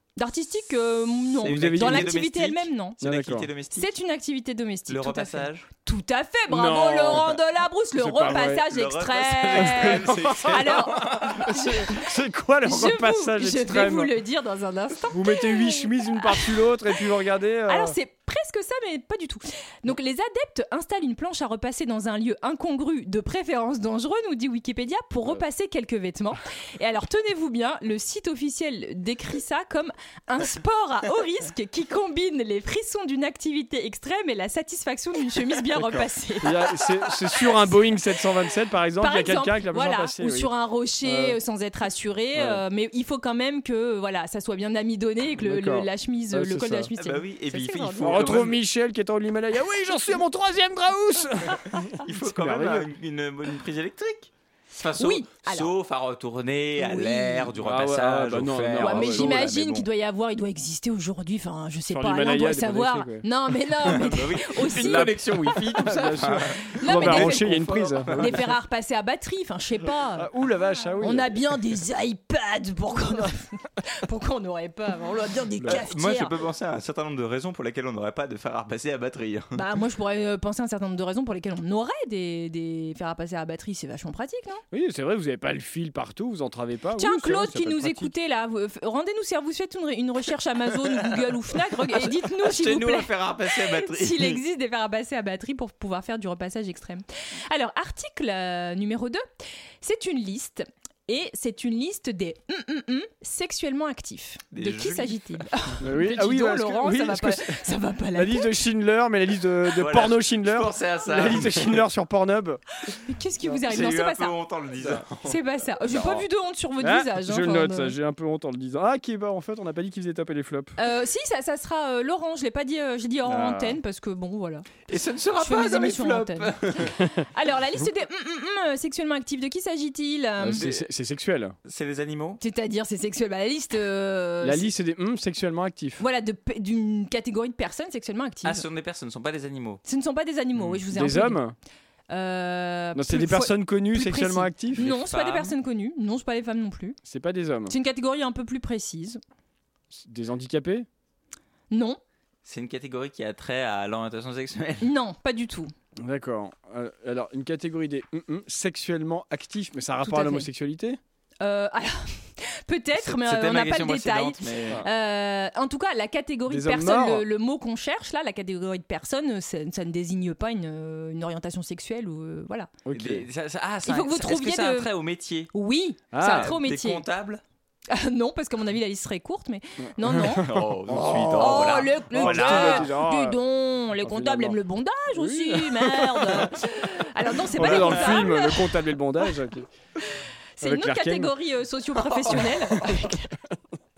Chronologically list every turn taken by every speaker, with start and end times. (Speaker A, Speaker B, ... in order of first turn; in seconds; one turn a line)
Speaker A: 0.2-3.0
Speaker B: 1.4-3.9
Speaker C: 1.5-2.1
Speaker C: 3.0-3.5
Speaker A: 3.7-12.1
Speaker B: 4.9-5.7
Speaker C: 6.5-7.4
Speaker C: 8.0-8.6
Speaker B: 8.3-11.6
Speaker C: 9.6-10.5
Speaker C: 11.5-14.1
Speaker A: 12.6-16.7
Speaker C: 15.1-17.9
Speaker A: 17.7-36.7
Speaker C: 35.8-40.5
Speaker A: 39.0-48.5
Speaker C: 41.0-41.4
Speaker C: 42.3-42.6
Speaker C: 45.4-46.9
Speaker B: 47.0-48.6
Speaker C: 48.0-52.9
Speaker B: 52.0-59.9
Speaker A: 55.0-55.7
Speaker A: 56.8-57.5
Speaker C: 57.6-59.4
Speaker A: 58.8-65.6
Speaker C: 61.9-63.2
Speaker B: 63.9-68.4
Speaker C: 64.8-68.4
Speaker A: 66.8-70.3
Speaker C: 70.2-71.3
Speaker A: 71.0-76.3
Speaker B: 75.7-79.6
Speaker A: 79.5-84.6
Speaker C: 84.7-88.1
Speaker A: 87.0-99.2
Speaker B: 91.9-94.4
Speaker A: 99.8-108.5
Speaker B: 104.5-105.4
Speaker C: 105.8-107.6
Speaker C: 108.2-112.6
Speaker B: 109.7-111.8
Speaker A: 112.9-114.3
Speaker B: 113.6-115.4
Speaker C: 114.8-115.1
Speaker A: 115.2-118.0
Speaker B: 115.9-116.2
Speaker C: 116.8-120.8
Speaker A: 120.8-124.7
Speaker C: 123.3-123.8
Speaker B: 124.9-126.9
Speaker A: 125.4-130.6
Speaker C: 130.4-131.6
Speaker B: 130.5-130.9
Speaker B: 131.6-132.4
Speaker A: 132.4-134.7
Speaker C: 134.4-136.0
Speaker A: 136.0-138.7
Speaker B: 138.4-139.8
Speaker A: 139.9-141.4
Speaker C: 140.9-141.6
Speaker A: 142.1-147.0
Speaker C: 142.9-144.8
Speaker B: 144.8-145.6
Speaker C: 147.1-147.7
Speaker A: 147.7-149.2
Speaker C: 149.9-150.9
Speaker A: 151.7-152.0
Speaker B: 152.4-154.9
Speaker A: 154.8-155.7
Speaker C: 156.0-161.0
Speaker A: 160.0-160.5
Speaker A: 161.4-172.8
Speaker B: 163.0-164.8
Speaker C: 166.5-167.2
Speaker C: 172.9-173.3
Speaker B: 172.9-175.5
Speaker A: 173.9-174.9
Speaker A: 175.5-177.0
Speaker C: 176.1-176.6
Speaker B: 176.2-177.4
Speaker A: 177.9-180.5
Speaker C: 179.8-183.4
Speaker B: 180.4-182.9
Speaker A: 181.4-188.9
Speaker C: 184.0-184.6
Speaker C: 185.1-186.5
Speaker C: 187.6-189.7
Speaker B: 187.6-188.3
Speaker A: 190.6-193.3
Speaker C: 190.6-191.3
Speaker B: 191.9-192.6